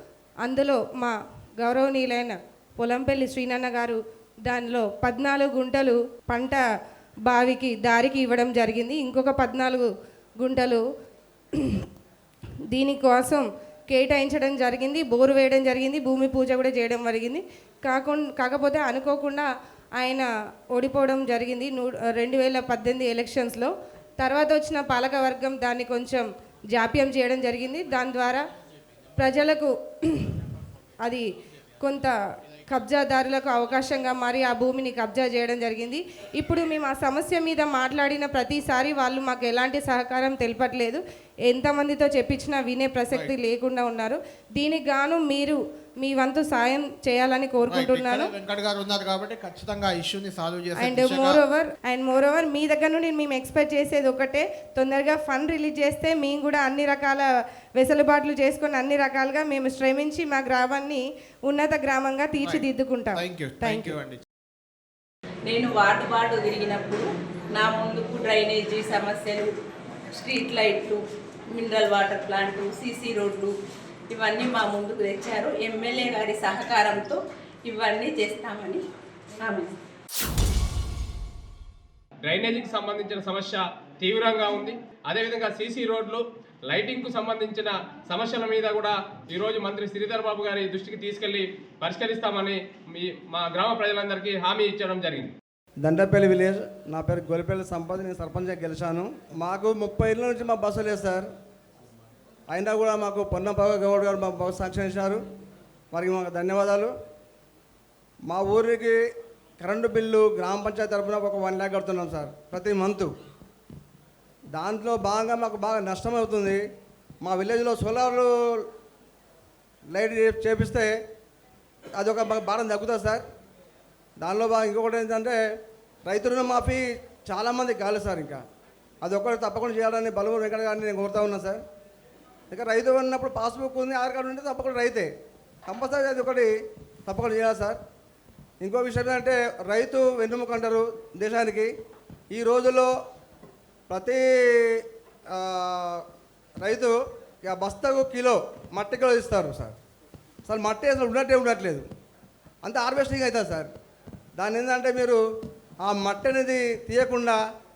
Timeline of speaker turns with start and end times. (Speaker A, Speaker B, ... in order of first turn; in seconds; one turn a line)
Speaker A: 0.4-6.6
Speaker A: 7.2-10.8
Speaker A: 11.6-11.8
Speaker A: 12.7-28.4
Speaker A: 29.2-30.4
Speaker A: 31.0-31.2
Speaker A: 31.8-32.1
Speaker A: 32.7-48.3
Speaker B: 47.7-51.4
Speaker A: 50.8-57.2
Speaker A: 57.8-64.0
Speaker B: 62.4-64.2
Speaker C: 65.4-69.6
Speaker C: 70.1-73.5
Speaker C: 74.1-78.8
Speaker C: 79.4-79.7
Speaker D: 82.2-95.3
Speaker E: 95.8-101.3
Speaker E: 102.5-105.2
Speaker E: 105.9-106.9
Speaker E: 108.2-109.0
Speaker E: 109.6-113.1
Speaker E: 114.5-116.6
Speaker E: 117.2-118.6
Speaker E: 119.9-120.9
Speaker E: 121.9-123.2
Speaker E: 124.2-125.4
Speaker E: 126.0-128.4
Speaker E: 129.0-131.6
Speaker E: 132.5-135.1
Speaker E: 135.7-136.5
Speaker E: 137.1-137.8
Speaker E: 138.6-141.7
Speaker E: 142.3-142.9
Speaker E: 143.9-146.0
Speaker E: 146.6-149.8
Speaker E: 150.4-151.8
Speaker E: 152.6-153.7
Speaker E: 154.4-155.2
Speaker E: 155.8-157.4